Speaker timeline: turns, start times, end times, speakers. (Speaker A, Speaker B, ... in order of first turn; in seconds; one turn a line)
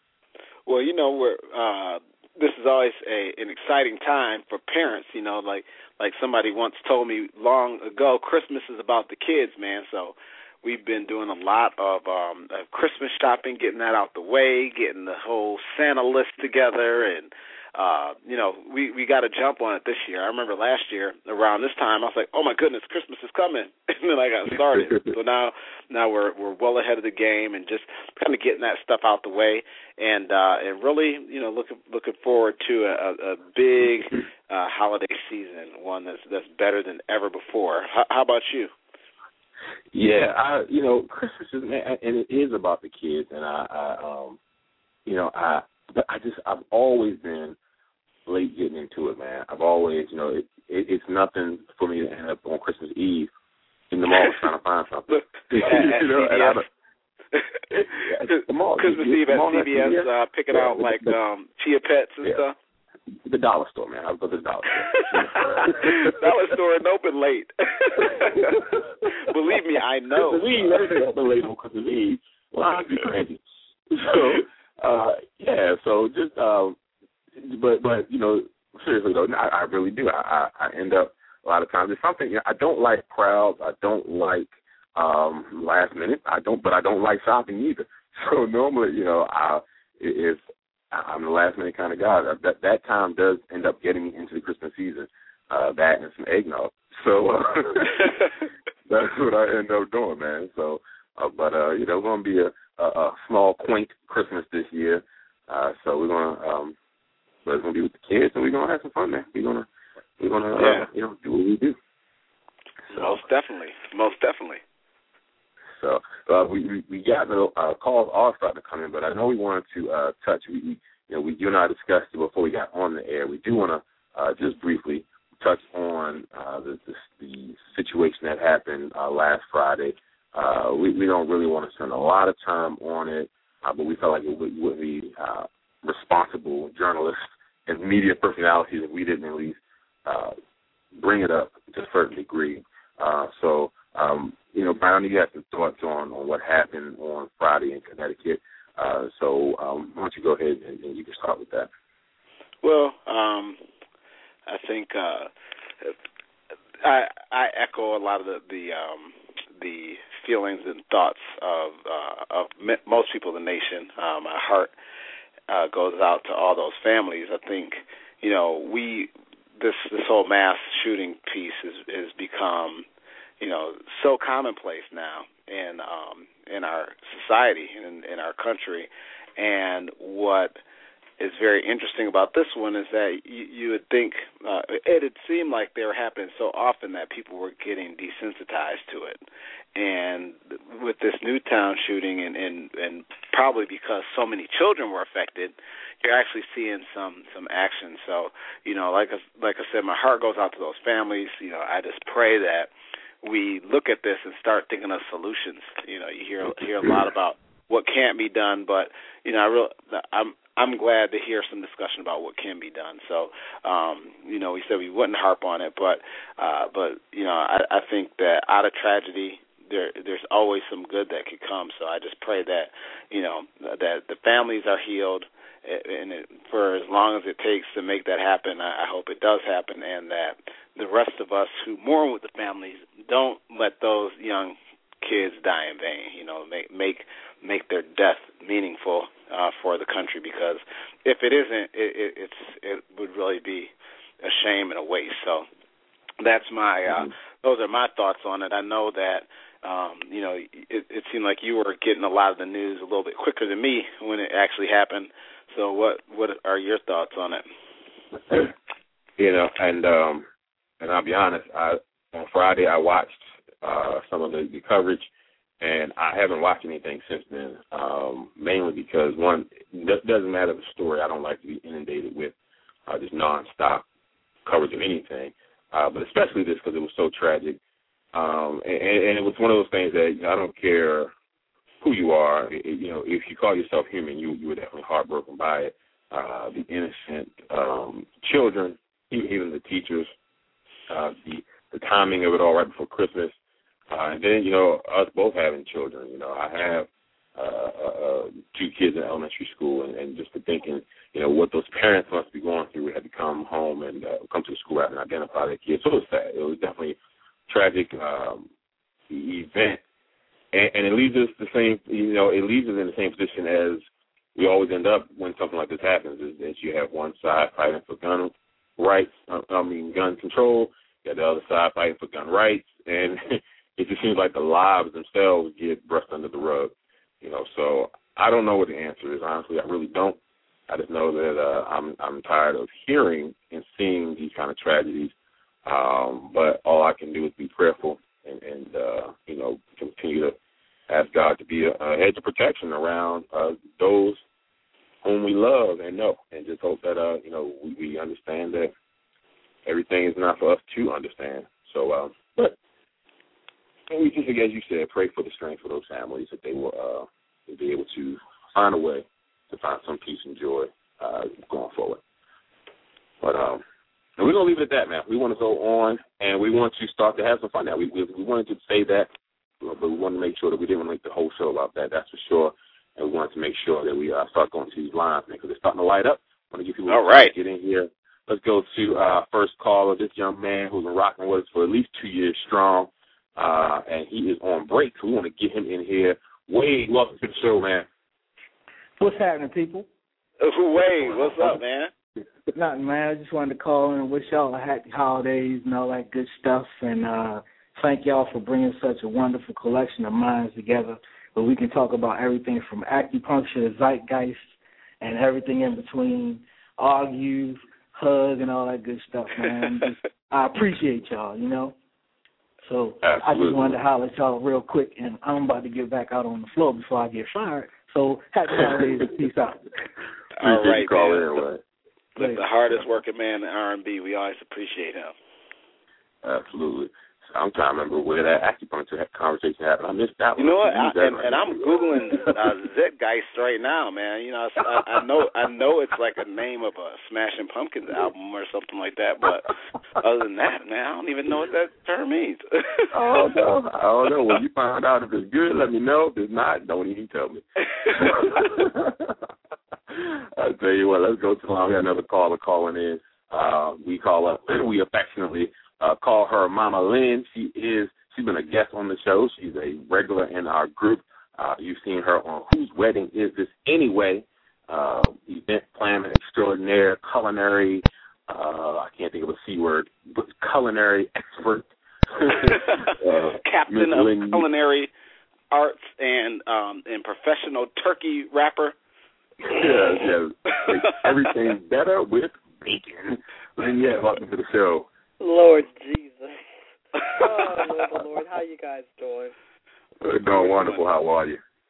Speaker A: 0.7-38.7
Speaker B: 24.7-25.1
Speaker B: 39.9-44.4
Speaker B: 45.0-47.6
Speaker B: 48.2-53.3
Speaker B: 53.9-56.6
Speaker A: 55.1-56.6
Speaker A: 57.3-62.5
Speaker B: 57.7-61.1
Speaker B: 63.2-66.3
Speaker A: 64.9-68.6
Speaker B: 68.0-69.1
Speaker A: 69.2-70.8
Speaker B: 70.2-76.8
Speaker B: 77.4-98.3
Speaker B: 98.9-106.8
Speaker B: 107.4-109.7
Speaker B: 110.2-111.8
Speaker A: 110.5-110.9
Speaker A: 112.9-114.6
Speaker B: 112.9-113.2
Speaker B: 115.7-140.3
Speaker B: 140.9-151.7
Speaker A: 152.6-153.6
Speaker A: 154.5-155.3
Speaker A: 156.8-164.7
Speaker A: 165.5-172.8
Speaker A: 173.4-180.6
Speaker A: 181.2-189.2
Speaker A: 189.8-202.7
Speaker A: 203.2-245.4
Speaker A: 246.2-257.4
Speaker B: 259.2-260.2
Speaker B: 260.8-272.3
Speaker B: 272.9-273.8
Speaker B: 274.4-277.6
Speaker B: 278.1-281.1
Speaker B: 281.8-290.1
Speaker B: 290.9-293.3
Speaker B: 293.9-307.0
Speaker B: 307.5-308.5
Speaker B: 309.1-309.8
Speaker B: 310.5-313.8
Speaker B: 314.4-335.1
Speaker B: 335.6-340.4
Speaker B: 340.9-344.2
Speaker B: 345.0-348.7
Speaker B: 349.6-352.6
Speaker B: 353.9-362.0
Speaker B: 363.2-363.6
Speaker B: 364.2-387.9
Speaker A: 376.9-377.3
Speaker C: 389.0-389.9
Speaker A: 390.4-391.9
Speaker B: 390.8-391.6
Speaker C: 392.5-404.4
Speaker C: 405.0-411.7
Speaker C: 412.6-419.6
Speaker B: 413.0-413.8
Speaker B: 418.6-419.1
Speaker A: 420.4-421.4
Speaker B: 420.4-421.6
Speaker A: 422.1-425.1
Speaker C: 422.2-422.4
Speaker B: 426.2-432.3
Speaker A: 430.4-443.4
Speaker B: 442.9-449.2
Speaker A: 447.8-448.2
Speaker B: 449.9-474.4
Speaker A: 472.4-474.9
Speaker A: 475.5-478.7
Speaker B: 479.4-484.9
Speaker A: 480.6-481.1
Speaker D: 485.2-486.4
Speaker A: 487.0-487.6
Speaker D: 487.0-489.3
Speaker B: 490.0-491.4
Speaker A: 490.4-490.8